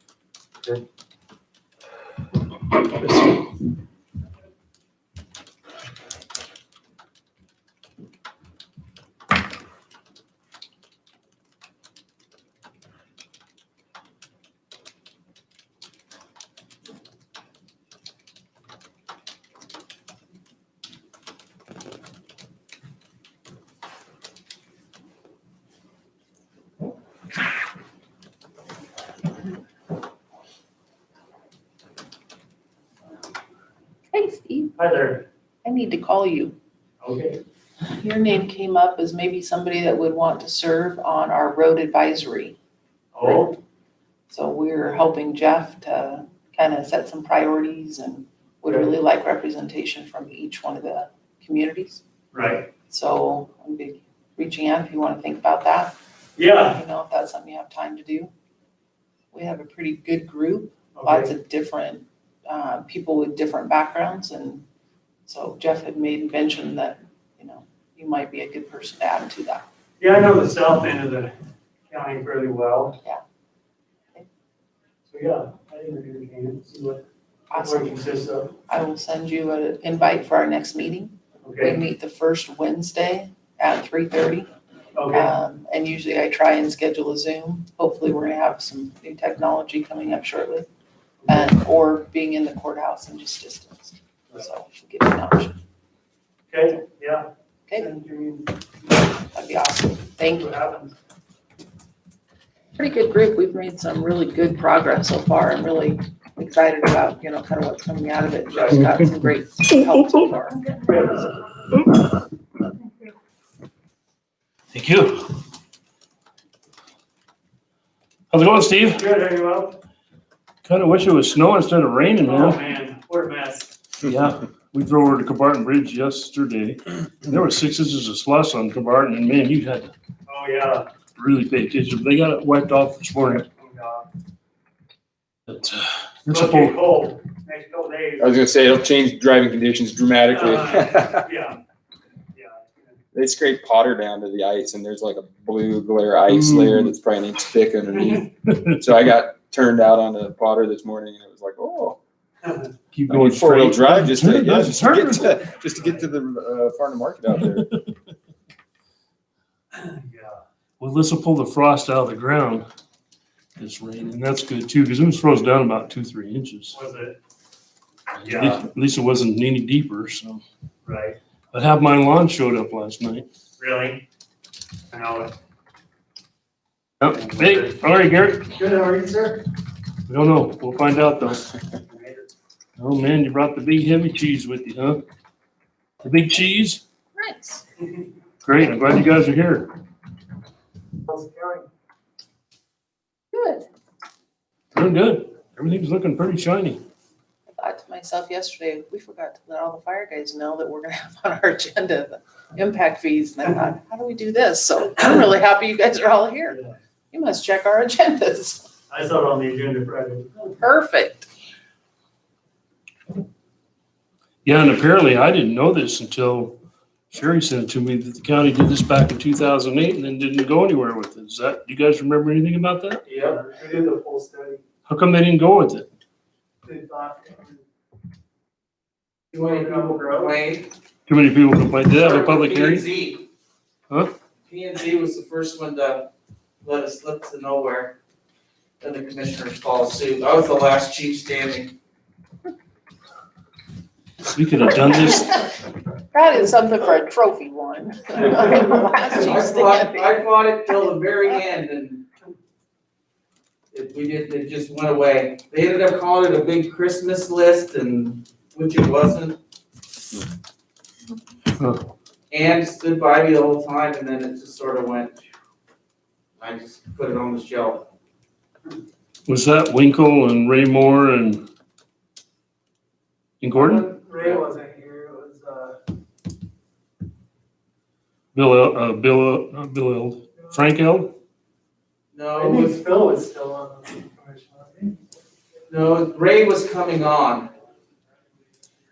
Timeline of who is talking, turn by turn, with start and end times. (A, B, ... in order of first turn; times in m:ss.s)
0:03.0-0:03.3 A
0:34.1-0:34.7 B
0:34.8-0:35.2 C
0:35.6-0:36.6 B
0:37.0-0:37.4 C
0:37.8-0:42.6 B
0:43.1-0:43.6 C
0:44.3-0:52.0 B
0:48.6-0:48.9 C
0:52.3-0:52.7 C
0:52.9-0:56.0 B
0:56.4-0:56.8 C
0:56.7-0:58.3 B
0:59.3-1:04.7 B
1:00.9-1:01.3 C
1:05.3-1:09.6 B
1:10.0-1:11.3 C
1:11.9-1:13.0 C
1:15.1-1:18.6 C
1:17.5-1:18.0 B
1:18.7-1:24.5 B
1:21.4-1:21.8 C
1:25.0-1:25.3 C
1:25.1-1:30.7 B
1:31.3-1:35.6 B
1:36.5-1:38.6 C
1:37.7-1:37.9 B
1:39.2-1:40.6 B
1:40.3-1:40.9 C
1:42.8-1:51.3 B
1:48.7-1:49.1 A
1:50.8-1:51.3 C
1:54.7-1:55.2 A
1:58.3-1:59.0 A
1:58.9-1:59.8 C
2:00.6-2:02.6 A
2:02.2-2:03.7 C
2:04.0-2:09.9 A
2:10.3-2:10.9 C
2:11.2-2:13.5 A
2:13.6-2:14.1 C
2:15.5-2:16.8 A
2:16.3-2:18.3 C
2:18.2-2:21.1 D
2:20.3-2:21.6 C
2:22.3-2:23.0 C
2:23.1-2:32.0 D
2:26.3-2:26.9 A
2:32.9-2:35.3 A
2:33.1-2:37.7 D
2:35.7-2:36.1 C
2:37.3-2:37.6 A
2:39.7-2:40.4 C
2:40.8-2:42.6 A
2:43.6-2:46.7 A
2:46.7-2:47.2 C
2:48.2-2:48.6 C
2:48.2-2:50.4 A
2:50.8-2:51.2 C
2:51.5-2:53.3 A
2:53.6-2:54.0 C
2:54.9-2:55.4 C
2:57.0-2:58.6 A
2:58.5-2:59.5 C
3:00.1-3:01.5 A
3:01.9-3:02.3 C
3:02.8-3:05.0 A
3:06.0-3:06.8 A
3:07.2-3:07.6 B
3:08.4-3:09.7 A
3:11.1-3:11.6 C
3:13.3-3:13.6 B
3:14.7-3:16.8 A
3:17.5-3:26.6 B
3:26.5-3:26.8 C
3:27.1-3:28.7 B
3:28.9-3:30.5 C
3:30.6-3:31.3 B
3:34.4-3:36.6 A
3:37.1-3:43.0 A
3:43.1-3:44.6 C
3:43.1-3:43.4 E
3:44.9-3:45.9 A
3:46.6-3:47.6 C
3:49.3-3:50.7 E
3:49.4-3:50.4 C
3:51.1-3:52.9 A
3:52.0-3:53.3 E
3:54.5-3:56.1 E
3:56.6-3:58.0 E
3:58.8-4:01.7 E
4:04.3-4:05.5 A
4:06.1-4:10.3 B
4:09.1-4:12.1 E
4:13.7-4:19.4 E
4:21.6-4:21.8 A
4:22.3-4:25.2 E
4:26.4-4:27.9 E
4:29.3-4:31.4 A
4:33.4-4:33.9 A
4:33.5-4:35.8 C
4:38.3-4:41.1 A
4:42.1-4:42.8 E
4:42.4-4:45.0 C
4:45.7-4:47.5 E